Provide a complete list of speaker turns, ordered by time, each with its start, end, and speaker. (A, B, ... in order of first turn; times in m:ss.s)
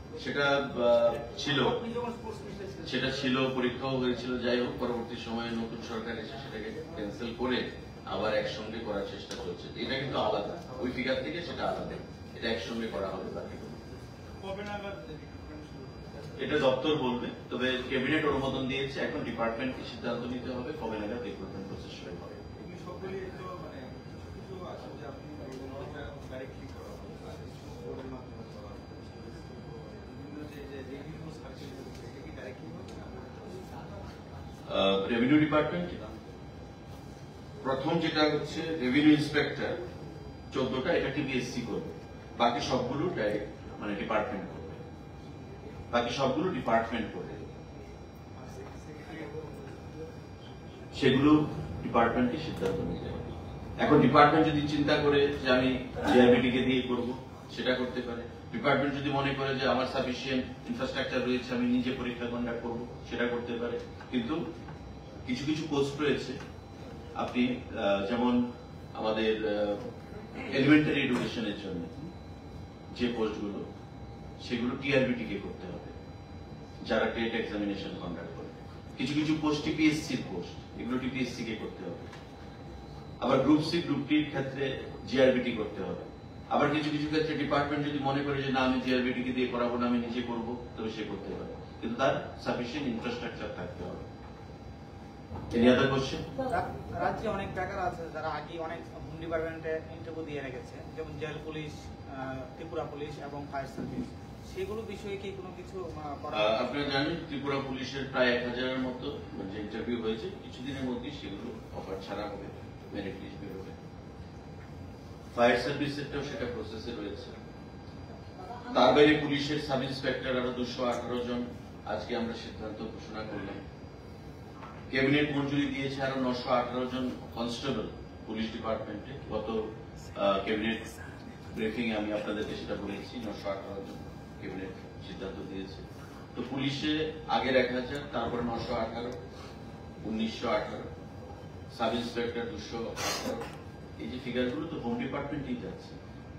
0:00.2-0:01.8 A
0:01.8-0:02.8 B
0:02.8-0:13.8 A
0:14.4-0:16.3 C
0:16.4-0:22.4 A
0:22.6-0:29.2 C
0:29.9-0:33.6 C
0:34.6-0:36.0 A
0:37.6-0:39.8 A
0:40.5-0:44.8 A
0:45.9-0:47.5 A
0:48.4-0:49.5 C
0:50.9-1:04.4 A
1:05.2-1:06.4 A
1:07.1-1:09.8 A
1:10.4-1:11.9 A
1:12.9-1:13.6 A
1:14.4-1:15.9 A
1:16.8-1:22.1 A
1:23.2-1:34.1 A
1:35.5-1:36.2 A
1:36.5-1:46.6 B
1:46.3-1:53.8 A
1:55.3-1:57.4 A
1:58.7-2:03.6 A
2:04.9-2:10.8 A
2:11.5-2:15.8 A
2:16.3-2:19.2 A
2:20.0-2:20.9 A
2:21.7-2:23.4 A
2:24.0-2:26.0 A